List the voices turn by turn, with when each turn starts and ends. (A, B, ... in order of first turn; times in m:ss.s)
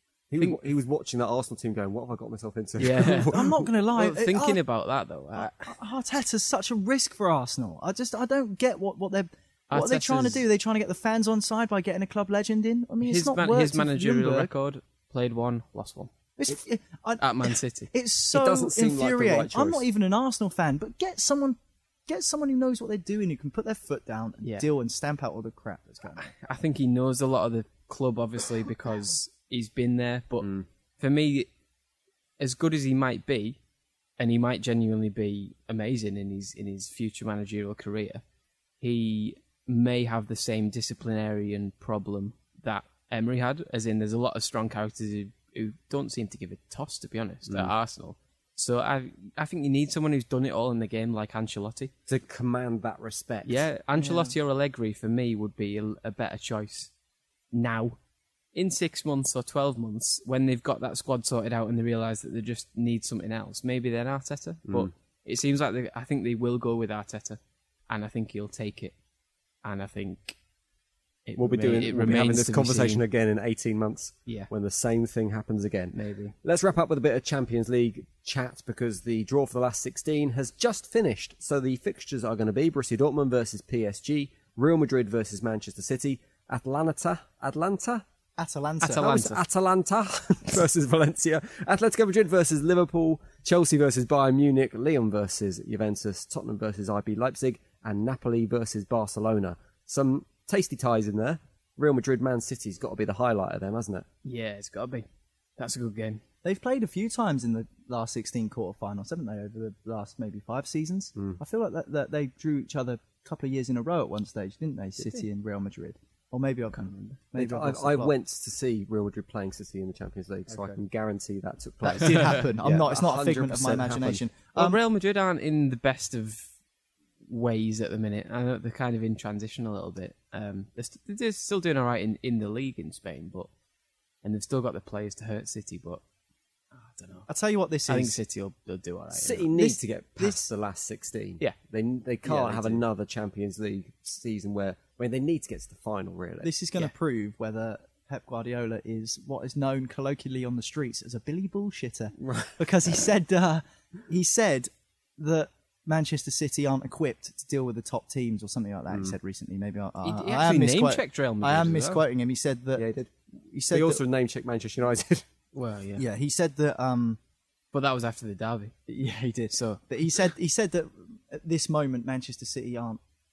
0:00.3-0:03.6 A
0:02.8-0:03.3 B
0:03.3-0:04.6 C
0:03.9-0:05.8 B
0:05.4-0:14.5 C
0:09.7-0:10.4 B
0:13.0-0:16.1 B
0:16.4-0:26.2 C
0:17.2-0:17.9 B
0:18.3-0:19.8 A
0:24.4-0:24.7 B
0:26.1-0:30.5 B
0:31.0-0:31.5 B
0:32.4-0:33.6 B
0:34.2-0:38.2 B
0:38.8-0:51.9 B
0:52.1-0:53.7 A
0:53.4-0:56.9 B
0:54.0-0:54.3 C
0:57.5-0:58.0 B
0:58.5-1:08.9 B
1:09.6-1:10.4 B
1:11.3-1:13.0 B
1:11.4-1:28.0 A
1:15.9-1:16.3 B
1:28.4-1:29.0 C
1:28.8-1:29.4 B
1:28.9-1:44.0 A
1:44.2-1:46.2 B
1:46.4-1:58.1 C
1:55.0-1:55.2 B
1:56.7-1:57.2 B
1:57.3-2:04.2 A
2:00.5-2:00.8 C
2:01.8-2:04.8 C
2:04.5-2:06.5 B
2:07.3-2:13.5 B
2:14.2-2:16.0 B
2:16.7-2:17.3 B
2:17.3-2:18.2 C
2:17.9-2:19.5 B
2:19.1-2:26.5 A
2:19.5-2:20.4 C
2:22.2-2:22.8 B
2:26.4-2:42.9 C
2:32.2-2:32.6 A
2:38.9-2:39.2 A
2:40.0-2:42.0 B
2:42.7-2:43.1 A
2:43.4-2:44.0 C
2:43.7-2:45.2 A
2:45.5-2:46.0 B
2:46.0-2:47.2 C
2:47.7-2:48.7 B
2:48.9-2:53.0 C
2:49.5-2:49.8 B